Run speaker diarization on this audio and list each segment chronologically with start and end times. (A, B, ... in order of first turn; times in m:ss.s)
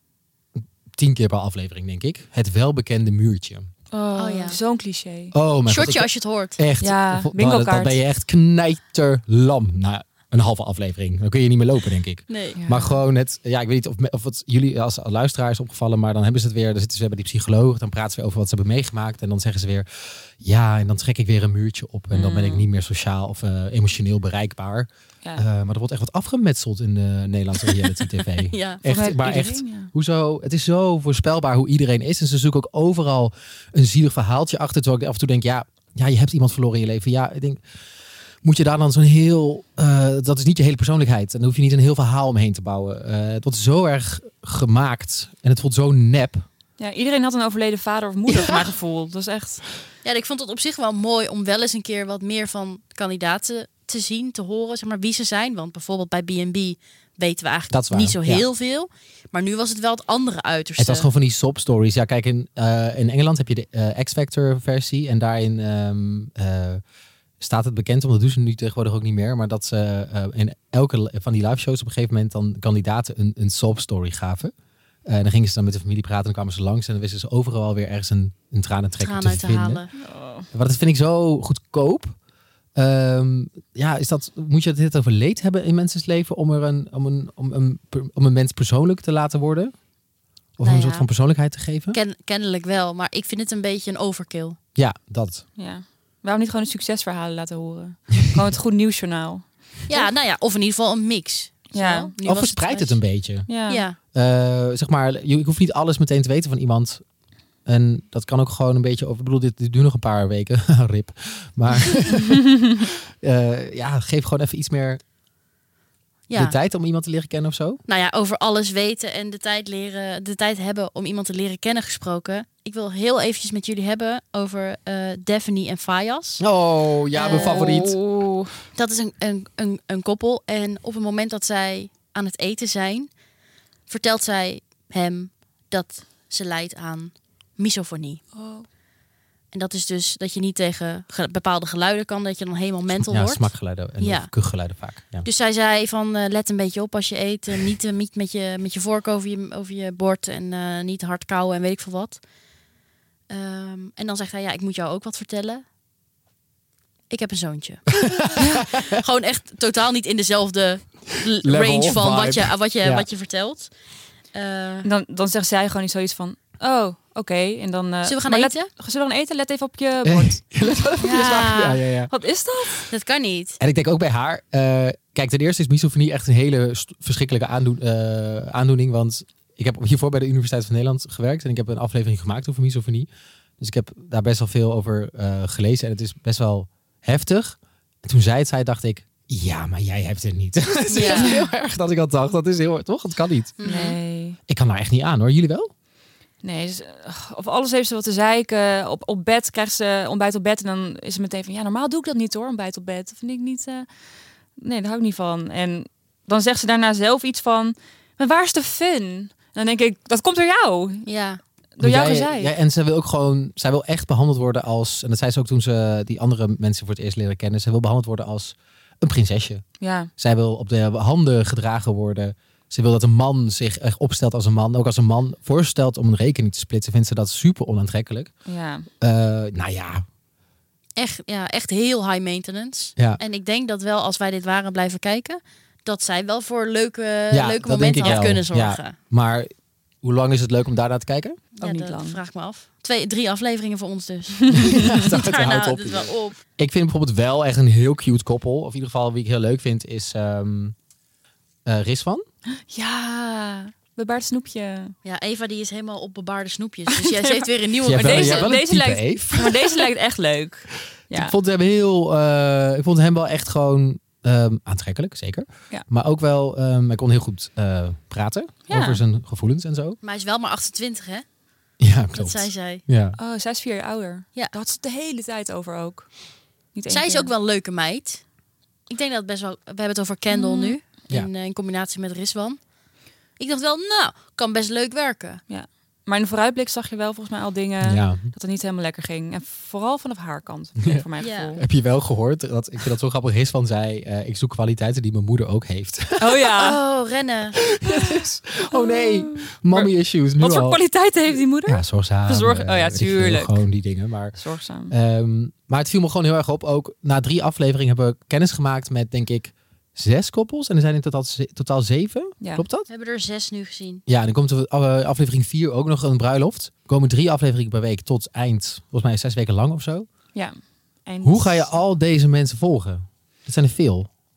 0:01.0-0:03.7 A
0:03.9-0:05.3 B
0:04.2-0:04.6 C
0:05.3-0:19.9 A
0:05.7-0:06.6 C
0:06.8-0:08.0 B
0:12.3-0:12.6 C
0:12.6-0:13.0 B
0:20.4-0:37.6 A
0:22.1-0:22.7 B
0:28.5-0:28.8 C
0:28.9-0:29.9 B
0:38.4-0:46.5 A
0:46.8-0:49.6 B
0:48.3-0:48.7 A
0:50.0-1:01.1 C
0:57.7-0:58.4 A
1:00.8-1:06.8 A
1:07.4-1:14.5 A
1:15.1-1:19.8 A
1:19.0-1:19.9 C
1:20.0-1:20.5 B
1:20.5-1:22.2 A
1:22.8-1:29.7 A
1:30.6-1:32.0 A
1:30.6-1:31.1 C
1:31.9-1:34.6 C
1:34.8-1:35.4 A
1:35.6-1:39.4 B
1:39.9-1:43.0 C
1:41.7-1:42.1 B
1:42.2-1:43.5 A
1:43.5-1:43.8 B
1:43.7-1:44.0 C
1:44.1-1:47.0 A
1:47.7-1:55.0 A
1:56.3-1:56.6 C
1:56.4-1:57.8 A
1:57.9-2:06.4 C
2:06.4-2:08.0 A
2:07.1-2:08.0 C
2:07.2-2:08.5 B
2:08.7-2:13.1 C
2:13.9-2:18.2 C
2:18.4-2:18.7 B
2:19.5-2:24.3 C
2:22.9-2:25.3 A
2:25.2-2:32.2 C
2:33.3-2:35.6 C
2:37.1-2:37.9 C
2:37.9-2:39.0 A
2:38.4-2:38.6 B
2:38.7-2:43.7 C
2:41.4-2:43.1 A
2:44.3-2:44.9 C
2:44.8-2:52.9 B
2:48.0-2:48.7 C
2:50.0-2:52.1 A
2:51.0-2:51.8 C
2:52.9-2:53.6 C
2:53.6-3:03.1 A
3:03.6-3:13.6 A
3:10.9-3:11.3 C
3:11.0-3:11.5 B
3:13.6-3:14.0 C
3:13.6-3:14.4 B
3:14.5-3:15.7 A
3:16.4-3:23.9 B
3:24.6-3:31.1 B
3:31.1-3:31.4 C
3:31.8-3:32.5 B
3:31.8-3:39.6 A
3:39.8-3:40.1 B
3:40.2-3:48.3 A
3:48.5-3:48.9 B
3:49.0-3:50.0 A
3:51.0-3:59.0 C
3:57.3-3:59.5 A
4:00.0-4:01.5 A
4:01.6-4:04.4 C
4:01.6-4:02.2 B
4:04.5-4:10.8 A
4:04.5-4:05.0 B
4:05.0-4:06.4 C
4:11.7-4:12.2 A
4:12.7-4:14.9 B
4:15.0-4:18.5 C
4:16.9-4:21.3 B
4:17.8-4:19.9 A
4:21.1-4:30.0 A
4:28.7-4:29.0 B
4:30.0-4:31.2 C
4:31.8-4:33.2 A
4:32.1-4:32.8 C
4:33.2-4:36.1 B
4:36.7-4:37.3 B
4:36.9-4:38.2 C
4:38.9-4:42.6 C
4:40.3-4:40.8 B
4:43.4-4:45.4 C
4:45.5-4:51.6 B
4:47.8-4:48.3 A
4:50.8-4:56.5 A
4:51.2-4:51.6 C
4:56.2-4:56.8 B
4:56.6-4:57.6 C
4:57.6-5:00.8 A
4:57.9-5:03.6 B
5:01.7-5:04.4 A
5:04.3-5:04.9 B
5:04.9-5:12.9 A
5:12.9-5:14.0 C
5:14.1-5:20.1 A
5:20.3-5:21.7 B
5:21.2-5:24.1 A